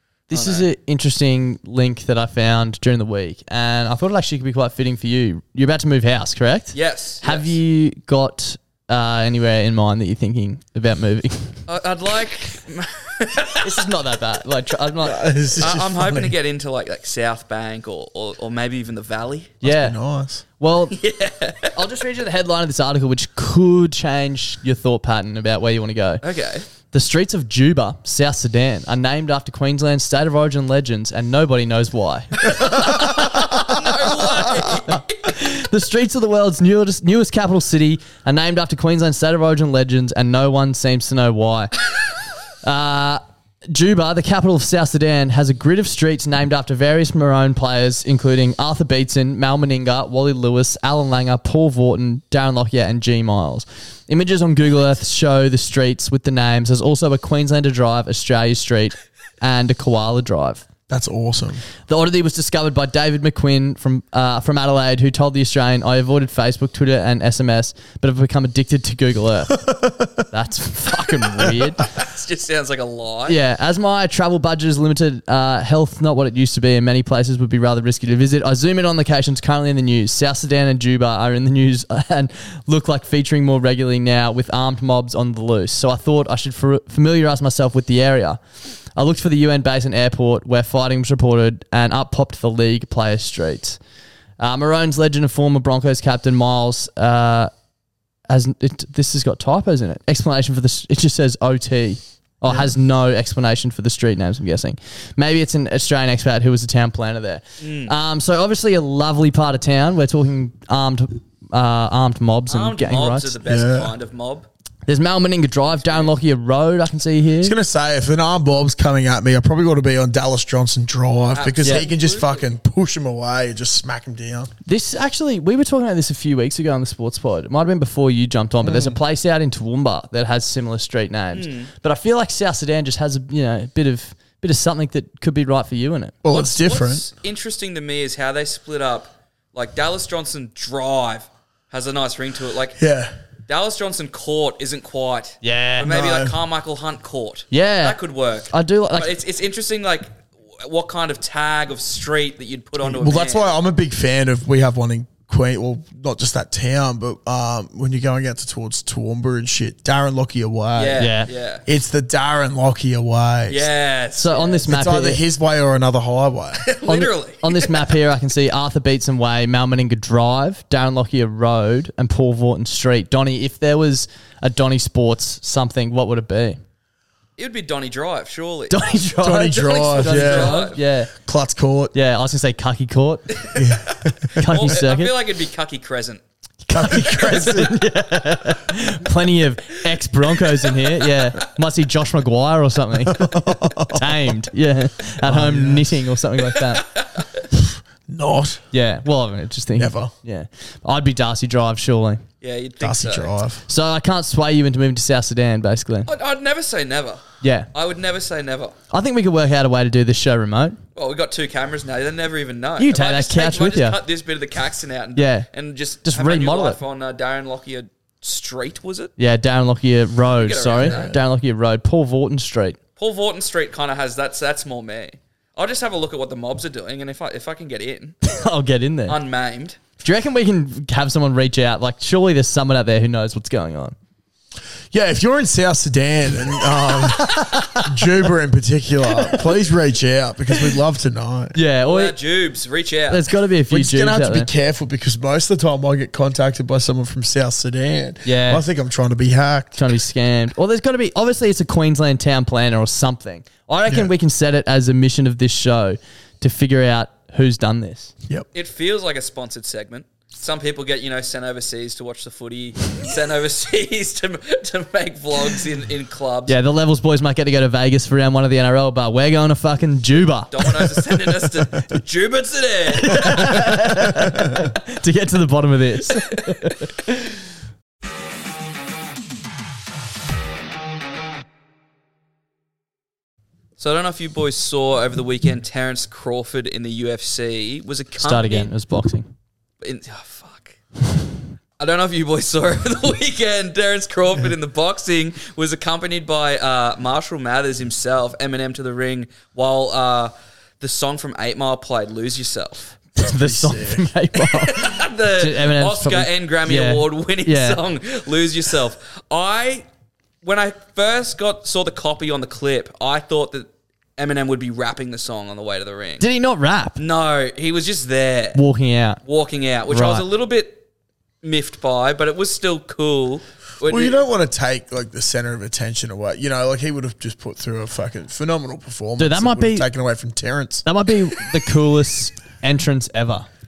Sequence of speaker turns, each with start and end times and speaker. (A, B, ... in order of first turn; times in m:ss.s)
0:00.3-0:11.5 A
0:00.3-0:00.7 B
0:06.7-0:07.5 B
0:11.7-0:13.8 B
0:13.6-0:15.3 A
0:15.0-0:16.3 C
0:15.6-0:19.6 B
0:19.6-0:20.0 A
0:19.6-0:20.4 C
0:20.6-0:21.0 A
0:20.9-0:21.7 B
0:21.7-0:26.2 A
0:26.2-0:26.6 B
0:26.9-0:33.1 A
0:32.6-0:35.2 B
0:34.7-0:41.7 A
0:42.6-1:00.6 A
1:00.9-1:01.6 C
1:01.9-1:09.6 A
1:09.5-1:10.2 C
1:10.3-1:11.9 A
1:11.9-1:13.4 B
1:13.3-1:28.4 A
1:28.9-1:33.8 A
1:34.4-1:37.5 A
1:38.3-1:53.3 A
1:47.6-1:47.9 B
1:52.5-1:54.5 B
1:53.4-1:53.9 C
1:54.8-1:57.6 A
1:55.7-1:56.1 B
1:57.4-2:04.5 C
2:01.3-2:02.4 B
2:04.6-2:16.1 A
2:08.6-2:09.0 C
2:11.3-2:11.7 B
2:16.2-2:17.1 C
2:16.3-2:22.8 B
2:22.8-2:23.1 C
2:23.5-2:33.4 B
2:25.4-2:25.9 A
2:25.8-2:26.4 C
2:27.5-2:28.0 A
2:28.5-2:29.1 A
2:32.8-2:41.1 C
2:40.7-2:41.6 B
2:41.0-2:41.3 A
2:41.6-2:43.7 C
2:43.5-2:44.7 B
2:44.2-2:45.2 A
2:44.7-2:46.6 C
2:46.6-2:47.9 B
2:46.8-2:56.6 A
2:57.4-3:00.8 B
2:58.7-3:01.1 A
2:59.2-3:01.9 C
3:01.9-3:03.4 A
3:03.4-3:03.7 B
3:03.5-3:04.4 C
3:04.4-3:05.1 A
3:04.5-3:06.2 B
3:06.6-3:07.8 C
3:06.8-3:16.9 A
3:13.0-3:14.3 C
3:15.2-3:16.0 C
3:16.8-3:17.2 B
3:17.5-3:18.6 C
3:18.7-3:22.2 A
3:19.8-3:20.1 C
3:22.4-3:23.3 B
3:22.8-3:23.6 C
3:23.7-3:26.1 A
3:26.1-3:28.7 B
3:27.4-3:27.7 A
3:28.9-3:30.8 A
3:31.0-3:39.1 B
3:32.8-3:34.0 A
3:35.2-3:35.5 A
3:36.0-3:36.8 A
3:39.2-3:42.8 A
3:40.4-3:41.1 B
3:40.8-3:41.2 C
3:43.0-3:48.2 B
3:48.2-3:49.2 A
3:49.1-3:49.8 B
3:50.0-3:54.0 A
3:54.9-4:01.6 C
3:56.9-3:58.1 A
3:59.1-3:59.4 A
4:01.5-4:02.1 A
4:01.9-4:03.3 B
4:03.1-4:04.5 A
4:03.7-4:10.0 C
4:08.2-4:08.6 A
4:09.8-4:18.1 A
4:18.5-4:26.5 B
4:26.5-4:30.6 A
4:30.5-4:33.5 B
4:33.0-4:36.9 A
4:33.3-4:34.4 C
4:43.8-4:48.7 B
4:48.2-4:49.3 A
4:49.8-4:50.8 B
4:51.8-5:02.9 B
5:03.2-5:07.8 A
5:03.2-5:04.1 C
5:04.3-5:09.8 B
5:10.4-5:16.2 B
5:16.2-5:17.0 A
5:17.0-5:18.6 B
5:18.5-5:19.2 A
5:19.2-5:20.8 B
5:19.9-5:20.2 A
5:21.4-5:24.2 B
5:23.8-5:30.8 C
5:29.2-5:29.9 A
5:30.8-5:33.5 A